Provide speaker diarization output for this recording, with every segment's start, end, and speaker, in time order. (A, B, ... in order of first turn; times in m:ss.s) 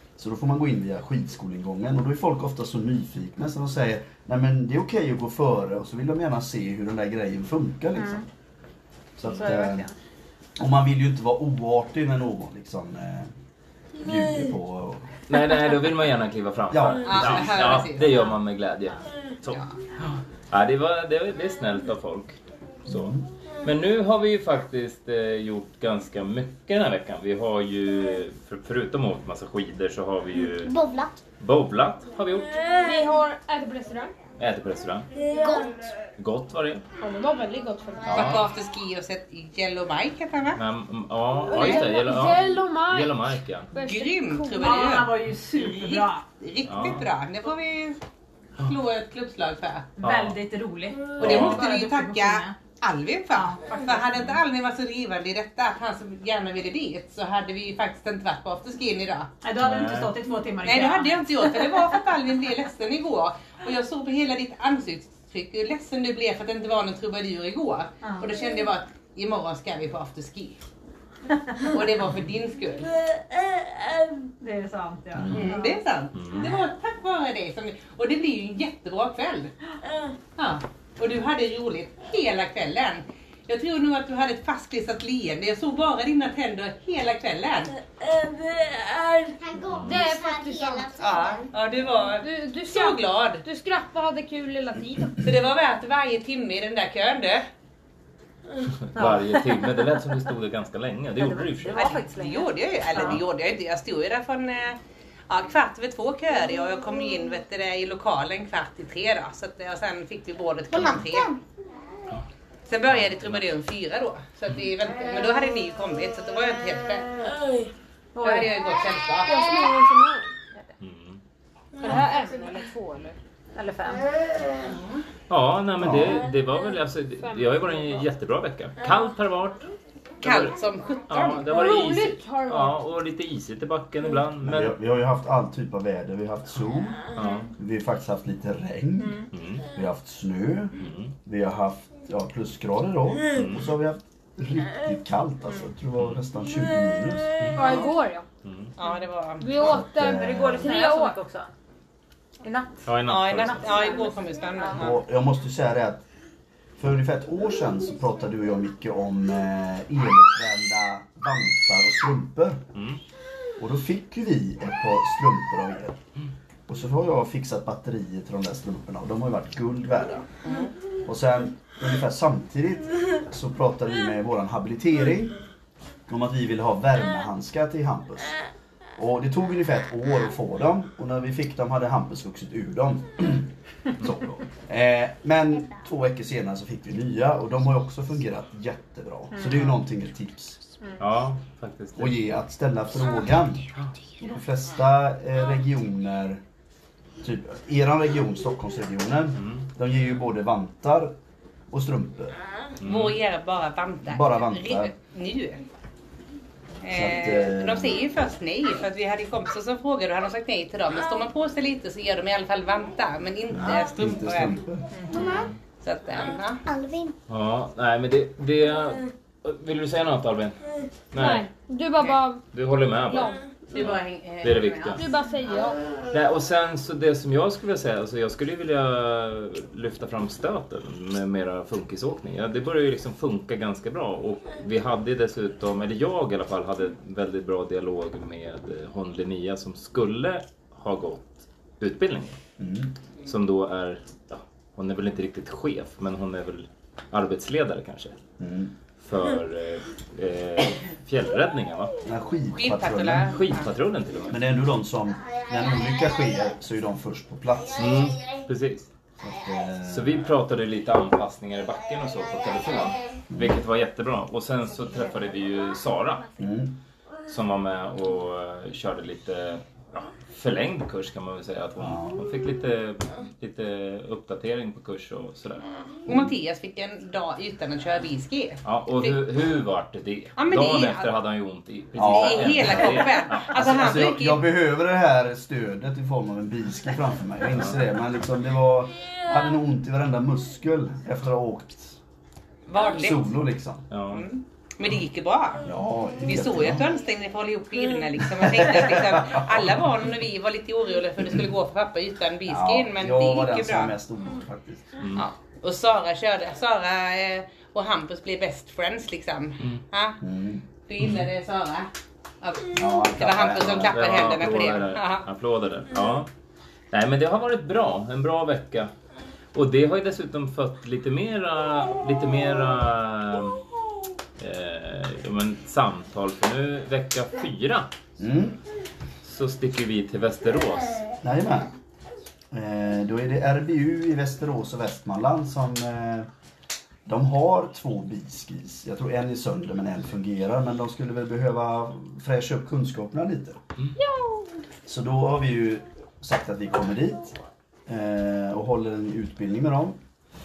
0:00.2-0:08.2 A
0:08.0-0:08.2 B
0:09.2-0:09.9 A
0:09.2-0:09.9 B
0:10.6-0:13.3 A
0:14.0-0:15.0 A
0:15.3-0:19.6 C
0:16.7-0:17.6 A
0:17.0-0:18.1 D
0:19.5-0:19.8 D
0:20.5-0:30.7 C
0:22.9-0:23.2 A
0:30.6-0:31.1 E
0:31.4-0:32.6 C
0:32.8-0:34.1 F
0:34.4-0:35.1 C
0:35.2-0:35.6 F
0:35.4-0:35.7 E
0:36.0-0:36.8 C
0:37.0-0:38.2 F
0:38.0-0:38.4 C
0:38.1-0:40.6 D
0:40.6-0:43.7 C
0:41.5-0:41.8 D
0:41.5-0:44.7 F
0:43.7-0:48.0 D
0:44.6-0:46.2 B
0:46.6-0:47.1 C
0:48.6-0:49.9 D
0:50.0-0:52.6 B
0:50.0-0:50.4 C
0:51.2-0:51.7 C
0:51.2-0:59.4 D
0:53.3-0:54.0 B
0:59.4-1:01.7 B
0:59.6-1:00.1 C
1:00.6-1:10.6 D
1:11.6-1:13.0 D
1:14.3-1:15.8 B
1:15.2-1:15.5 A
1:15.3-1:19.5 D
1:16.1-1:16.5 C
1:20.4-1:27.8 D
1:29.3-1:31.5 E
1:29.7-1:30.0 C
1:29.8-1:30.9 F
1:31.0-1:33.4 D
1:32.0-1:35.2 F
1:35.1-1:37.4 D
1:38.8-1:41.9 C
1:38.9-1:39.3 B
1:41.2-1:43.2 B
1:41.8-1:44.8 D
1:45.3-1:51.4 D
1:51.1-1:51.3 E
1:52.7-1:57.1 D
1:52.9-1:53.5 C
1:58.1-1:58.5 B
1:58.2-1:59.4 D
1:59.2-2:00.3 F
2:00.8-2:01.2 C
2:01.8-2:02.5 B
2:01.8-2:03.2 F
2:03.5-2:04.0 B
2:04.6-2:05.0 D
2:05.3-2:09.7 C
2:05.8-2:06.2 A
2:07.2-2:08.0 F
2:10.2-2:14.8 C
2:10.2-2:11.5 D
2:11.4-2:12.8 F
2:14.4-2:27.8 A
2:17.1-2:17.5 C
2:19.0-2:19.2 B
2:19.3-2:19.7 C
2:20.8-2:21.1 C
2:23.3-2:23.7 C
2:26.0-2:26.2 C
2:27.5-2:28.2 F
2:28.4-2:28.7 C
2:28.8-2:29.7 D
2:29.4-2:31.2 F
2:29.6-2:30.7 A
2:30.0-2:31.5 B
2:32.4-2:34.8 B
2:32.8-2:33.7 C
2:33.1-2:35.0 D
2:34.8-2:36.0 A
2:36.8-2:42.6 A
2:42.7-2:43.0 C
2:43.6-2:46.0 A
2:46.7-2:50.3 A
2:50.4-2:50.7 D
2:51.0-2:55.4 A
2:56.1-2:58.4 A
2:59.0-3:10.6 A
3:09.3-3:09.8 B
3:11.0-3:12.2 C
3:12.0-3:13.6 A
3:14.2-3:16.4 A
3:17.2-3:21.1 A
3:19.4-3:19.7 C
3:21.7-3:22.4 A
3:22.8-3:23.2 C
3:22.8-3:25.6 D
3:24.0-3:24.9 A
3:26.8-3:36.6 D
3:26.9-3:28.0 A
3:33.5-3:34.9 A
3:35.1-3:35.4 E
3:35.2-3:35.5 C
3:36.6-3:37.1 E
3:37.3-3:40.6 C
3:41.1-3:41.5 C
3:41.1-3:42.4 F
3:42.5-3:45.0 C
3:43.0-3:43.4 F
3:43.7-3:45.0 D
3:44.9-3:45.8 F
3:46.1-4:02.4 C
4:02.6-4:02.9 A
4:03.2-4:08.2 C
4:08.4-4:08.7 A
4:09.0-4:11.9 C
4:12.0-4:13.4 A
4:12.6-4:13.6 D
4:13.3-4:14.4 C
4:14.3-4:18.1 A
4:17.7-4:18.9 C
4:19.2-4:20.2 A
4:19.8-4:26.3 C
4:23.3-4:23.6 A
4:26.4-4:26.8 A
4:27.3-4:35.6 C
4:31.8-4:32.2 A
4:36.0-4:39.2 D
4:36.1-4:36.3 A
4:38.6-4:43.9 C
4:40.4-4:41.1 D
4:42.0-4:43.0 A
4:42.0-4:44.4 D
4:43.5-4:52.0 A
4:52.7-4:53.3 D
4:52.9-4:53.9 A
4:53.9-4:54.2 C
4:54.1-4:55.6 D
4:55.6-4:56.8 A
4:56.2-5:03.9 D
4:58.5-4:59.6 A
5:02.4-5:04.9 A
5:05.0-5:05.2 C
5:05.2-5:10.2 D
5:10.2-5:10.6 A
5:10.8-5:11.9 D
5:11.0-5:11.3 C
5:12.4-5:15.2 D
5:12.8-5:13.9 A
5:13.8-5:16.3 C
5:16.9-5:18.9 C
5:19.5-5:23.6 C
5:24.4-5:27.9 C
5:28.2-5:28.6 A
5:29.2-5:31.0 C
5:31.2-5:31.7 A
5:32.5-5:36.3 A
5:37.0-5:43.6 A
5:44.0-5:44.5 F
5:44.8-5:47.4 A
5:47.9-5:50.0 A